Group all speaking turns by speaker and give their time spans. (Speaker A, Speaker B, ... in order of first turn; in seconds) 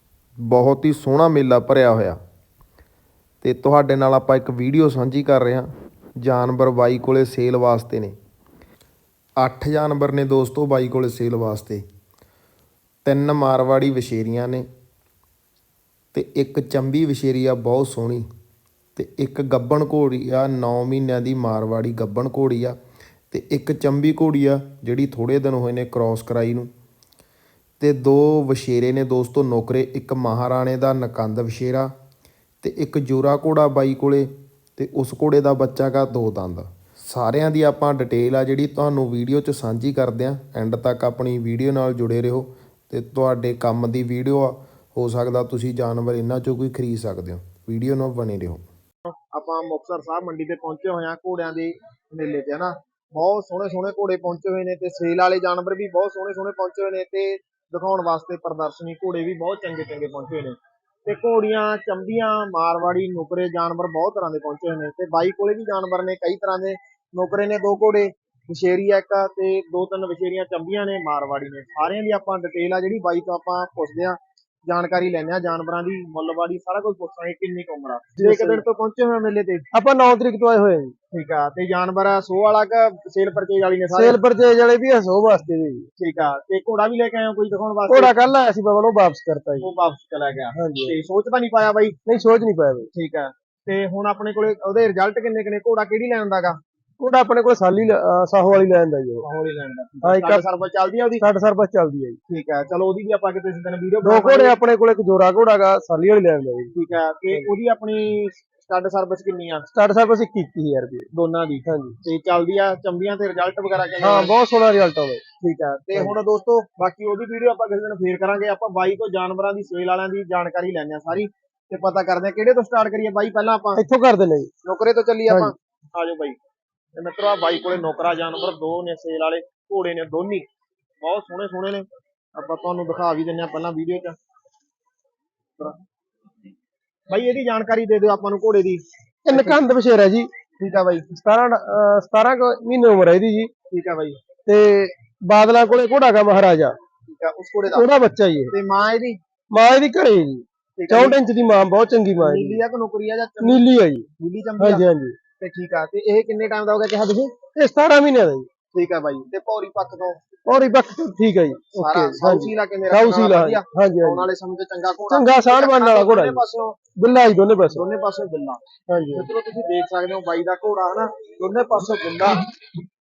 Speaker A: 0.5-2.2, 3.4-5.7, 6.2-8.2, 9.4-11.8, 13.0-14.7, 16.1-18.2, 18.9-22.8, 23.3-26.7, 27.8-31.9, 32.6-48.6
Speaker B: 49.3-79.6, 81.1-84.2, 86.0-88.1, 89.6-92.0, 92.9-96.6, 99.2-101.2, 102.3-104.6, 106.7-109.7, 111.1-114.3, 115.4-123.8, 124.6-126.4, 127.0-130.5, 131.0-134.2, 137.1-139.7, 140.6-141.1, 143.7-144.2, 147.1-147.9, 148.5-149.2, 150.8-151.2, 152.2-153.7, 154.2-154.8, 155.4-157.3, 158.7-160.2, 161.8-166.8, 167.7-168.6, 169.2-172.5
Speaker C: 78.2-78.6, 79.7-80.9, 83.9-85.8, 87.9-89.7, 90.5-90.9, 92.0-92.9, 97.0-99.2, 100.0-100.4, 101.2-102.2, 104.0-106.7, 109.7-111.1, 111.6-112.0, 114.0-115.2, 123.7-124.5, 125.3-125.5, 139.2-140.3, 141.1-143.5, 144.5-146.8, 147.7-148.5, 149.5-152.6, 153.4-154.1, 154.6-155.2, 157.6-158.5, 160.5-164.3, 165.1-166.4, 167.0-167.8, 168.9-169.3